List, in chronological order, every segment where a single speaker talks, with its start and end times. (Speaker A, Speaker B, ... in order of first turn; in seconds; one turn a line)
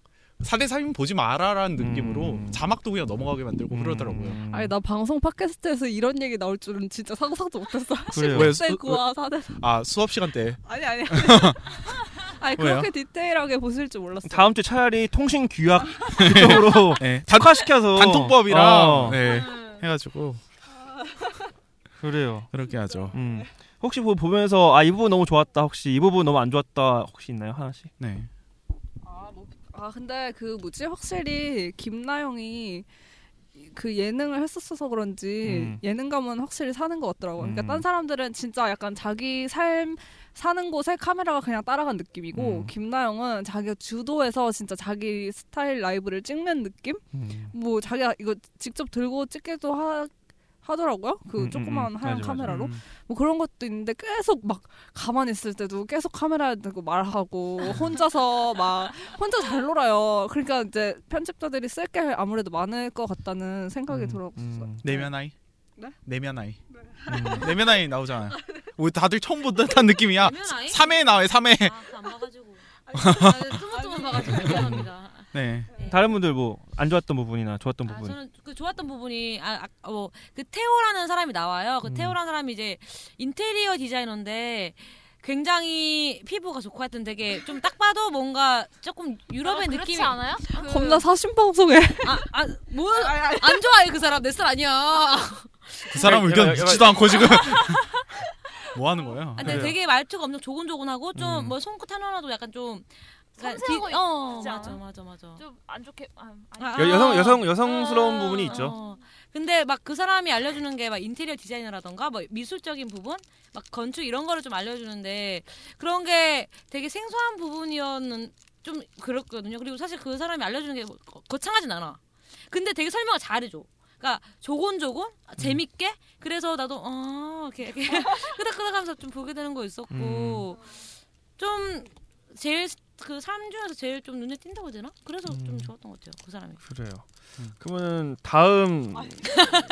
Speaker A: 0.4-4.4
Speaker B: 1.8-2.6
Speaker B: 3.7-4.7
Speaker C: 4.5-9.6
Speaker B: 8.1-8.6
Speaker A: 8.3-11.9
Speaker C: 10.6-14.5
Speaker A: 12.6-12.9
Speaker B: 14.2-19.2
Speaker A: 16.1-20.4
Speaker B: 22.0-22.5
Speaker A: 22.5-23.2
Speaker B: 23.1-27.9
Speaker A: 28.0-28.3
Speaker C: 29.2-32.9
Speaker C: 33.6-65.1
Speaker B: 35.4-35.8
Speaker B: 37.4-37.9
Speaker B: 42.3-42.7
Speaker B: 47.1-47.5
Speaker B: 51.3-52.7
Speaker A: 52.5-52.8
Speaker B: 57.6-58.0
Speaker B: 63.9-64.9
Speaker A: 64.8-65.3
Speaker A: 66.0-66.6
Speaker B: 67.0-67.6
Speaker A: 67.2-71.8
Speaker D: 70.1-76.0
Speaker A: 72.9-73.6
Speaker B: 74.4-74.9
Speaker A: 75.3-75.7
Speaker B: 75.9-78.2
Speaker D: 77.8-90.7
Speaker B: 81.8-82.2
Speaker E: 89.4-91.0
Speaker C: 90.6-92.2
Speaker D: 92.0-96.0
Speaker A: 95.9-97.9
Speaker B: 96.0-97.3
Speaker A: 98.7-99.7
Speaker D: 99.3-105.4
Speaker B: 99.4-99.7
Speaker B: 101.1-101.5
Speaker E: 103.4-104.8
Speaker E: 105.3-107.5
Speaker D: 106.6-130.8
Speaker B: 106.8-108.8
Speaker E: 108.4-109.0
Speaker B: 129.9-130.5
Speaker D: 131.4-136.6
Speaker B: 135.3-135.7
Speaker B: 136.6-137.0
Speaker B: 137.6-139.4